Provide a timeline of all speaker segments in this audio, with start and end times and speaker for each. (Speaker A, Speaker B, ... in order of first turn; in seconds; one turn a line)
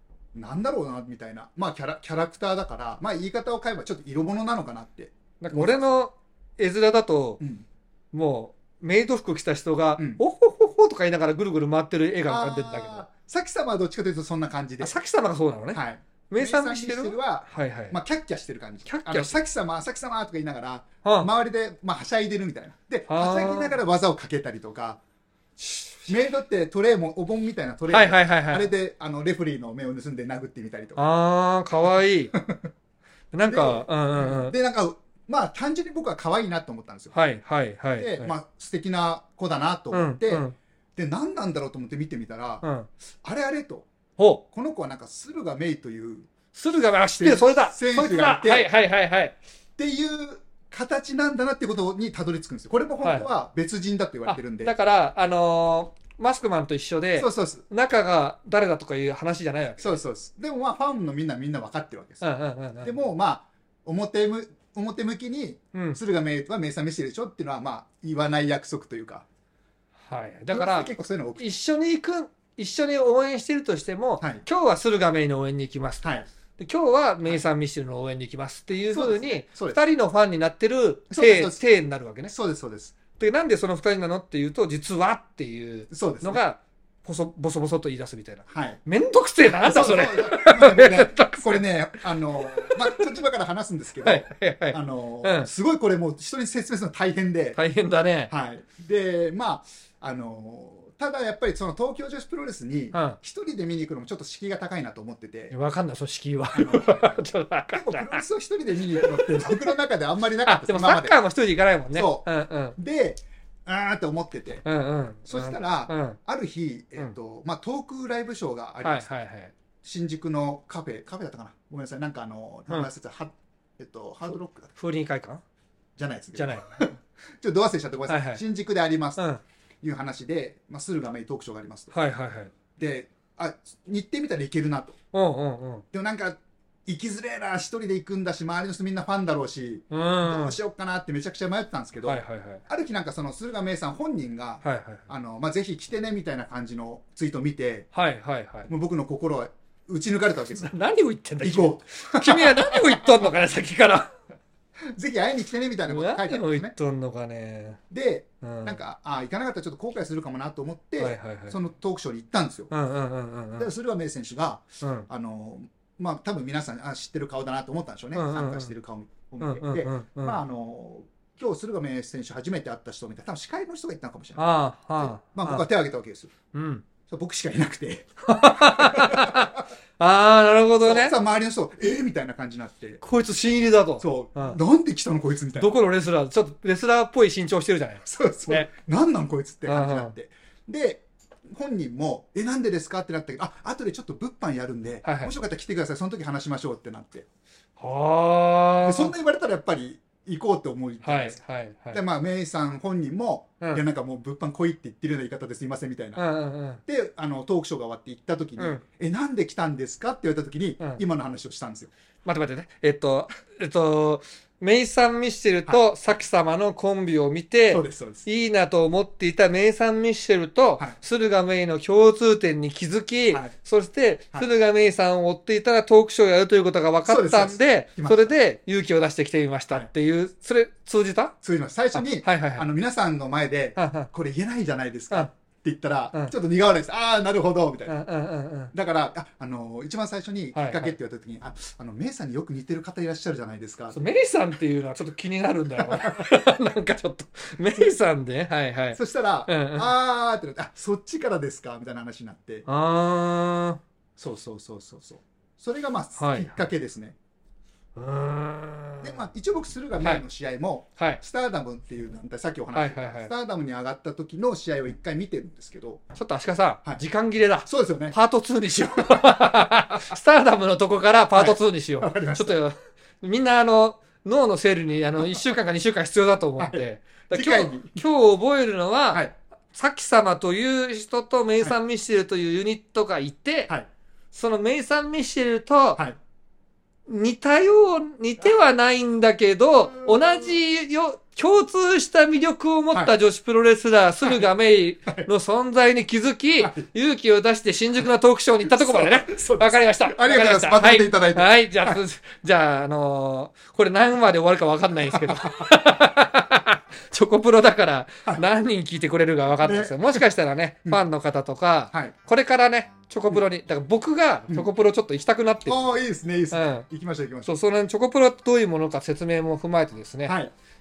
Speaker A: 0.3-6.0
Speaker B: 5.4-7.4
Speaker A: 7.4-7.7
Speaker B: 8.1-13.1
Speaker A: 12.2-14.9
Speaker B: 14.8-18.0
Speaker A: 15.7-25.0
Speaker B: 18.9-19.4
Speaker B: 21.0-21.3
Speaker B: 23.1-23.8
Speaker B: 25.6-26.1
Speaker A: 26.1-31.1
Speaker B: 27.9-28.7
Speaker B: 31.0-32.3
Speaker A: 32.3-32.7
Speaker B: 33.3-34.5
Speaker A: 33.5-37.1
Speaker B: 37.1-38.3
Speaker A: 38.0-42.6
Speaker B: 39.9-40.5
Speaker B: 42.6-42.9
Speaker A: 43.2-43.9
Speaker B: 44.2-44.4
Speaker A: 44.5-46.3
Speaker B: 46.5-49.4
Speaker A: 47.2-48.7
Speaker A: 49.8-54.7
Speaker B: 53.0-53.3
Speaker B: 54.2-60.0
Speaker A: 57.1-57.6
Speaker A: 59.8-62.3
Speaker B: 62.2-63.1
Speaker A: 62.8-69.2
Speaker B: 65.7-66.0
Speaker B: 70.1-82.3
Speaker A: 70.5-71.5
Speaker A: 76.0-76.3
Speaker A: 78.8-79.8
Speaker A: 81.1-81.6
Speaker A: 82.3-82.9
Speaker B: 83.2-93.1
Speaker A: 85.9-86.4
Speaker A: 88.5-88.8
Speaker A: 89.5-97.6
Speaker B: 94.0-95.5
Speaker B: 97.5-98.3
Speaker A: 98.3-105.5
Speaker B: 102.9-103.2
Speaker B: 105.5-108.2
Speaker A: 106.5-111.2
Speaker B: 108.9-109.7
Speaker B: 110.4-112.8
Speaker A: 111.9-114.6
Speaker B: 114.6-116.2
Speaker A: 115.3-119.1
Speaker B: 118.8-119.5
Speaker A: 119.8-124.7
Speaker B: 124.8-125.4
Speaker A: 126.0-129.2
Speaker B: 126.3-126.8
Speaker B: 128.1-128.4
Speaker B: 129.2-129.4
Speaker A: 129.8-131.9
Speaker B: 131.9-132.5
Speaker A: 132.8-135.0
Speaker B: 135.1-135.8
Speaker A: 135.9-147.9
Speaker B: 139.9-140.6
Speaker B: 142.0-142.6
Speaker B: 144.6-145.1
Speaker B: 147.9-148.7
Speaker A: 148.7-150.7
Speaker B: 150.5-154.1
Speaker A: 151.4-153.3
Speaker A: 154.9-156.7
Speaker B: 155.8-157.8
Speaker A: 157.9-162.7
Speaker B: 158.4-158.8
Speaker B: 161.0-161.6
Speaker B: 162.7-163.7
Speaker A: 163.6-174.4
Speaker B: 164.8-165.1
Speaker B: 168.1-168.7
Speaker B: 169.4-170.4
Speaker B: 174.3-175.7
Speaker A: 175.0-176.3
Speaker B: 176.5-176.8
Speaker A: 177.1-179.6
Speaker B: 178.3-181.1
Speaker A: 180.8-183.0
Speaker B: 183.0-184.6
Speaker A: 184.0-185.7
Speaker B: 185.6-188.7
Speaker A: 188.0-197.2
Speaker B: 189.7-190.1
Speaker B: 195.0-195.3
Speaker B: 197.8-199.1
Speaker A: 198.8-201.4
Speaker B: 201.0-202.0
Speaker A: 201.9-206.2
Speaker B: 206.2-206.8
Speaker A: 206.8-211.9
Speaker B: 212.2-231.3
Speaker A: 217.7-218.3
Speaker A: 227.1-228.3
Speaker A: 231.4-238.1
Speaker B: 231.9-232.7
Speaker B: 233.8-234.1
Speaker B: 237.9-238.7
Speaker A: 238.7-244.0
Speaker B: 240.5-240.9
Speaker B: 243.9-249.9
Speaker A: 245.8-246.3
Speaker A: 248.9-252.7
Speaker B: 252.7-253.8
Speaker A: 254.2-257.1
Speaker B: 256.2-256.6
Speaker B: 257.9-259.3
Speaker A: 259.0-266.0
Speaker B: 260.0-260.2
Speaker B: 262.7-263.3
Speaker B: 266.1-283.7
Speaker A: 267.6-268.2
Speaker A: 269.0-269.7
Speaker A: 271.3-272.6
Speaker A: 276.6-278.0
Speaker B: 284.3-286.0
Speaker B: 287.1-315.8
Speaker A: 289.9-290.5
Speaker A: 296.6-296.9
Speaker A: 298.6-302.0
Speaker A: 305.1-305.6
Speaker A: 309.6-310.2
Speaker A: 315.7-317.5
Speaker B: 316.5-316.9
Speaker B: 317.4-320.4
Speaker A: 320.2-320.5